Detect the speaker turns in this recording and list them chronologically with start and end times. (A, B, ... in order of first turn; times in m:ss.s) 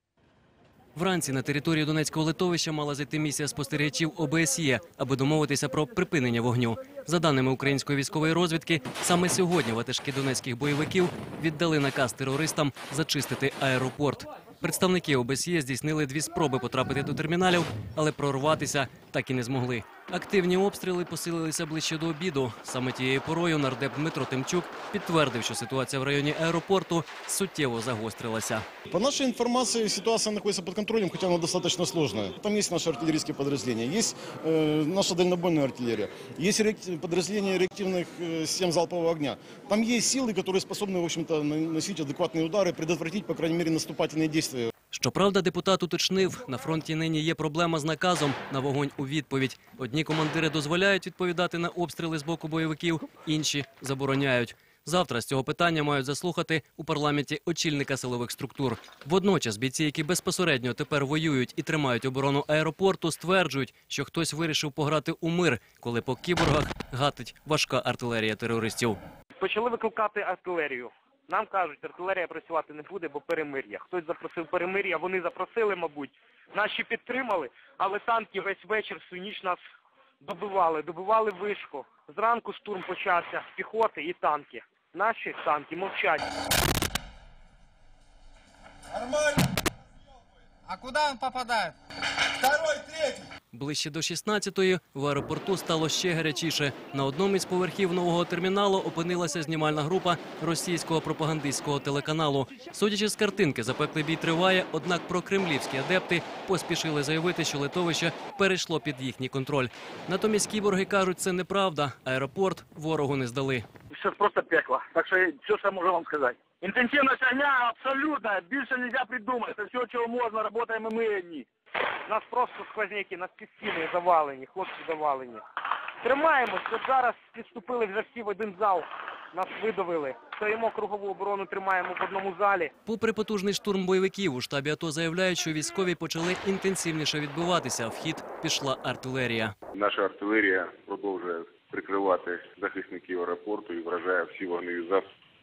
0:01.0-0:28.6 A
0:28.9-0:44.7 B
0:44.9-1:09.0 A
1:09.4-1:19.6 C
1:20.2-1:26.2 C
1:33.5-1:53.6 A
1:53.9-2:01.5 D
2:02.1-2:05.4 C
2:06.0-2:12.7 C
2:12.8-2:19.5 A
2:19.7-2:25.0 E